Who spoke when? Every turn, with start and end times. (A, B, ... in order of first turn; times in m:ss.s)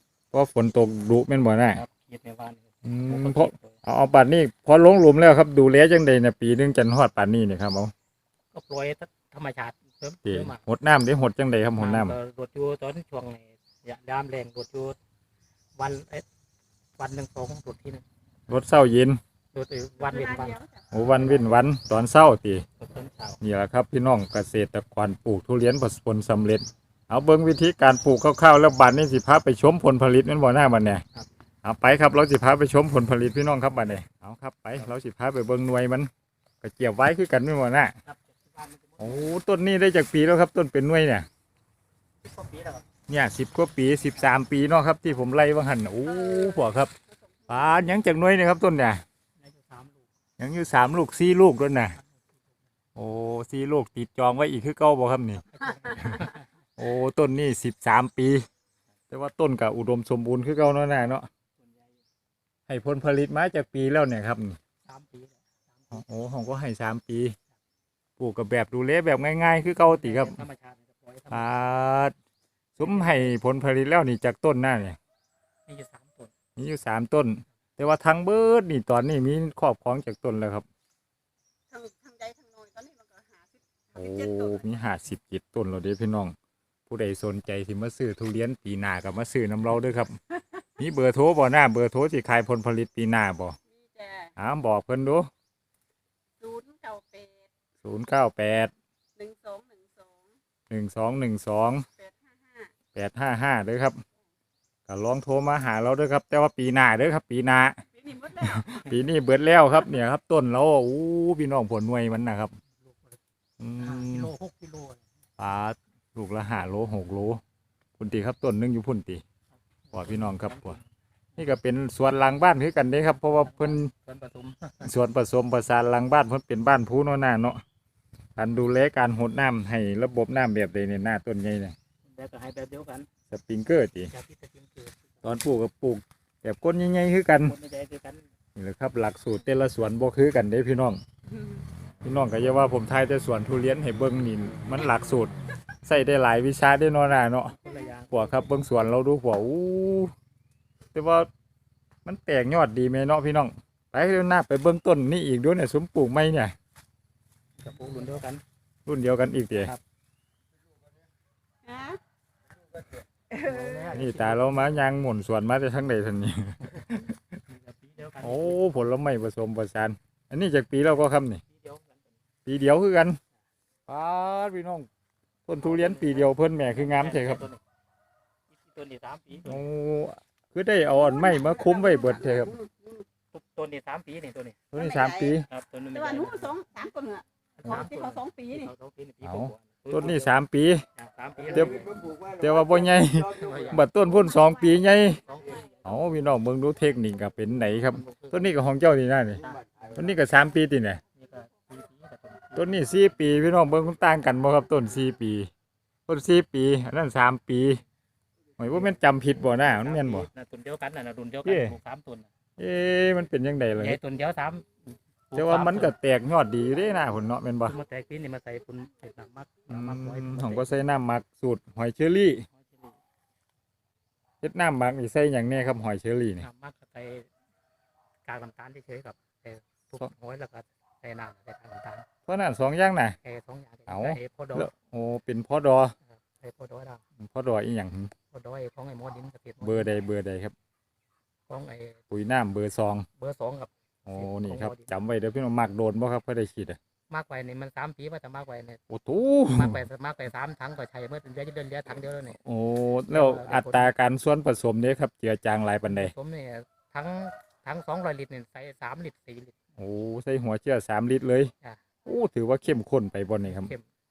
0:00.3-0:01.8 A
0:01.7-0:03.8 B
0:02.8-0:07.9 A
0:08.5-0:10.6 B
0:10.2-0:12.1 A
0:11.8-0:15.0 B
0:15.8-0:16.2 B
0:17.0-0:18.0 B
0:18.5-0:19.2 A
0:19.5-0:21.5 B
0:20.9-0:22.6 A
0:22.8-0:23.4 B
0:23.4-0:31.0 A
0:31.6-0:36.1 A
0:36.6-0:37.9 A
0:38.1-0:39.3 B
0:39.0-0:41.3 A
0:42.2-0:42.8 B
0:43.1-0:46.9 A
0:47.5-0:49.0 A
0:49.4-0:50.0 B
0:50.4-0:52.0 A
0:53.0-0:55.4 A
0:55.4-0:56.5 B
0:56.8-0:58.4 A
0:59.1-1:01.3 A
1:01.6-1:01.9 B
1:02.7-1:04.6 A
1:04.8-1:06.0 B
1:05.9-1:07.4 A
1:08.2-1:10.4 A
1:09.6-1:11.5 B
1:11.3-1:12.1 A
1:12.8-1:15.0 A
1:12.8-1:13.4 B
1:15.7-1:16.3 B
1:16.6-1:20.6 A
1:21.7-1:24.2 C
1:23.9-1:26.3 A
1:26.9-1:30.2 A
1:30.8-1:33.6 A
1:33.8-1:34.3 C
1:34.4-1:35.3 A
1:36.4-1:37.3 C
1:37.8-1:38.7 A
1:39.2-1:40.1 C
1:40.7-1:41.9 A
1:42.0-1:42.7 C
1:42.9-1:44.0 A
1:44.9-1:52.6 A
1:48.1-1:48.4 C
1:52.9-1:53.2 B
1:53.6-1:54.3 A
1:53.8-1:55.0 B
1:55.4-1:57.4 A
1:58.0-1:59.2 A
1:59.9-2:00.8 B
1:59.9-2:00.8 A
2:01.4-2:03.9 A
2:03.3-2:04.9 B
2:04.8-2:07.6 A
2:08.4-2:11.7 A
2:12.1-2:13.1 B
2:13.3-2:14.1 A
2:14.1-2:15.3 B
2:15.2-2:17.5 A
2:17.4-2:18.2 B
2:18.6-2:21.0 A
2:22.0-2:25.3 A
2:25.8-2:27.6 A
2:27.6-2:28.7 B
2:28.1-2:30.1 A
2:30.9-2:31.3 A
2:32.0-2:36.5 A
2:37.6-2:38.4 B
2:38.8-2:39.7 A
2:41.7-2:42.0 C
2:43.4-2:44.8 B
2:43.9-2:47.4 A
2:47.5-2:48.6 B
2:48.2-2:51.4 A
2:51.5-2:52.1 B
2:52.4-2:53.2 A
2:53.9-2:54.9 A
2:55.5-2:57.5 A
2:55.6-2:57.6 B
2:58.5-2:59.6 B
2:59.4-3:02.6 A
3:02.6-3:03.0 C
3:03.3-3:04.7 B
3:04.7-3:05.4 A
3:04.8-3:05.1 C
3:05.4-3:06.6 B
3:06.2-3:07.2 C
3:07.6-3:10.3 B
3:08.0-3:08.5 C
3:09.2-3:10.8 A
3:11.0-3:11.9 B
3:11.5-3:15.2 A
3:13.3-3:13.8 B
3:15.1-3:16.0 B
3:15.8-3:19.4 A
3:17.8-3:18.6 B
3:19.4-3:20.2 B
3:19.9-3:21.0 A
3:21.1-3:22.9 B
3:22.6-3:25.5 A
3:26.1-3:27.8 A
3:28.6-3:30.3 A
3:29.5-3:32.3 B
3:31.4-3:31.7 A
3:32.6-3:34.0 A
3:33.7-3:34.7 B
3:35.3-3:35.9 B
3:35.3-3:37.7 A
3:37.6-3:40.8 B
3:39.7-3:42.4 A
3:42.5-3:42.9 B
3:44.4-3:46.4 A
3:46.4-3:47.3 B
3:48.2-3:52.1 B
3:52.3-3:53.2 A
3:53.2-3:54.7 B
3:53.9-3:55.9 A
3:56.1-3:57.0 B
3:57.2-3:58.1 A
3:58.3-4:00.1 B
3:59.6-4:00.5 A
4:01.5-4:02.0 B
4:02.1-4:03.1 A
4:03.2-4:04.9 B
4:04.0-4:06.8 A
4:07.1-4:08.8 B
4:08.9-4:09.8 A
4:09.5-4:12.4 B
4:12.4-4:16.1 A
4:13.1-4:13.9 B
4:15.8-4:19.6 B
4:19.8-4:21.5 A
4:22.0-4:23.7 A
4:23.4-4:23.8 B